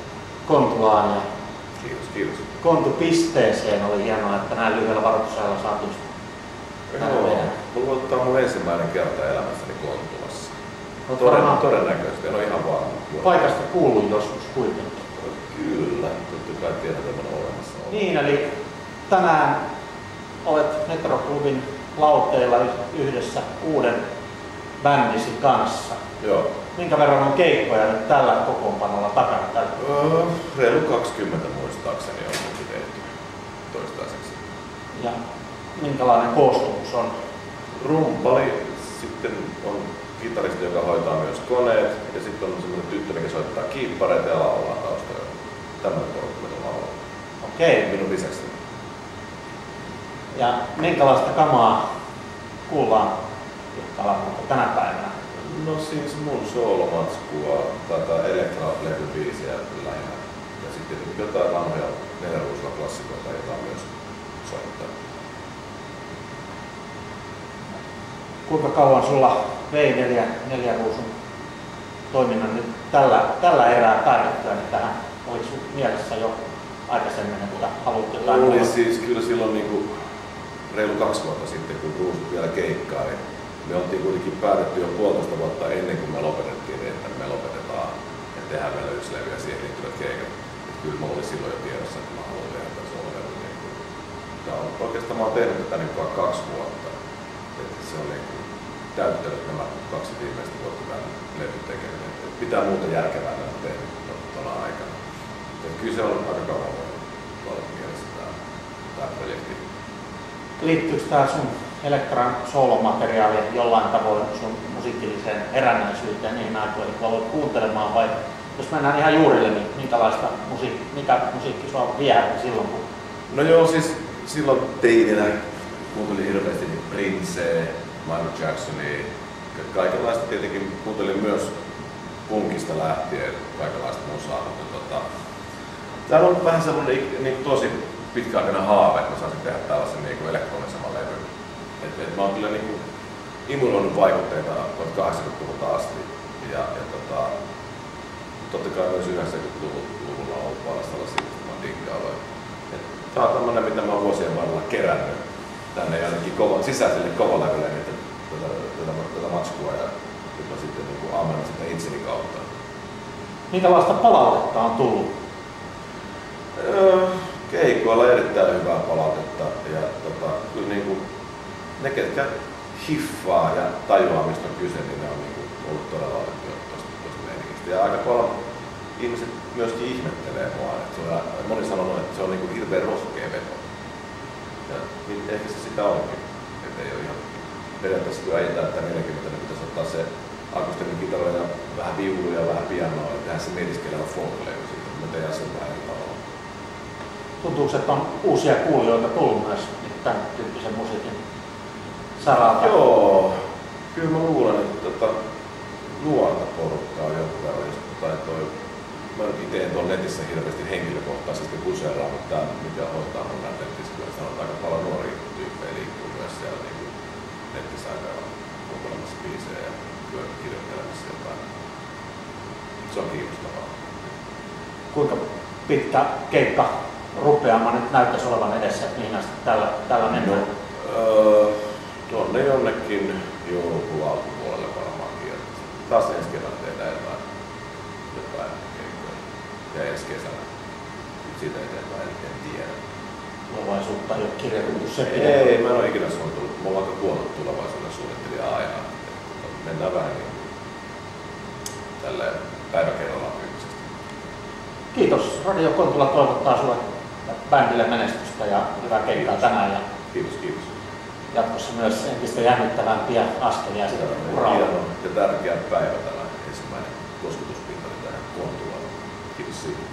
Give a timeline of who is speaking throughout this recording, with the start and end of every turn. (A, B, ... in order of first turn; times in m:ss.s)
0:00.4-0:01.2 A
0:01.8-0:02.4 B
0:02.6-0:06.0 A
0:06.9-0:10.5 B
0:07.0-0:07.5 A
0:11.1-0:11.6 A
0:11.2-0:13.5 B
0:13.2-0:14.9 A
0:15.2-0:18.0 B
0:17.9-0:18.5 A
0:19.1-0:19.6 A
0:20.4-0:24.0 A
0:24.8-0:26.0 A
0:26.2-0:26.4 B
0:26.7-0:29.7 A
0:29.8-0:33.0 B
0:33.7-0:34.4 B
0:35.8-0:37.1 A
0:37.8-0:45.3 B
0:45.8-0:46.9 B
0:47.4-0:47.8 A
0:47.8-0:48.5 B
0:50.3-0:51.8 A
0:52.7-0:53.1 A
0:53.7-0:55.1 A
0:55.4-1:03.9 B
1:04.4-1:04.9 B
1:08.5-1:11.1 A
1:12.1-1:18.7 A
1:18.2-1:19.9 B
1:20.7-1:33.8 B
1:34.4-1:36.9 B
1:37.6-1:45.0 B
1:45.6-1:48.3 B
1:48.9-1:49.6 B
1:50.6-2:02.8 A
2:03.3-2:05.3 B
2:05.9-2:11.5 B
2:12.3-2:15.0 B
2:16.1-2:21.2 B
2:21.8-2:22.8 B
2:23.5-2:27.3 B
2:28.4-2:32.2 B
2:32.7-2:35.2 B
2:35.7-2:42.4 B
2:43.5-2:45.1 A
2:46.5-2:51.0 B
2:51.8-2:58.3 B
2:58.9-3:03.6 B
3:04.7-3:16.2 B
3:17.4-3:21.2 A
3:22.2-3:22.8 A
3:22.3-3:23.3 B
3:23.9-3:25.1 B
3:26.0-3:28.5 B
3:29.1-3:36.9 B
3:37.5-3:41.4 B
3:42.8-3:43.7 B
3:44.9-3:50.5 A
3:50.0-3:57.2 B
3:58.1-3:59.2 B
3:59.7-4:00.4 B
4:01.2-4:02.7 B
4:03.5-4:05.5 A
4:05.1-4:10.4 B
4:12.0-4:13.8 B
4:14.9-4:19.8 A
4:18.9-4:19.5 B
4:20.1-4:20.7 B
4:21.3-4:24.7 A
4:23.9-4:29.8 B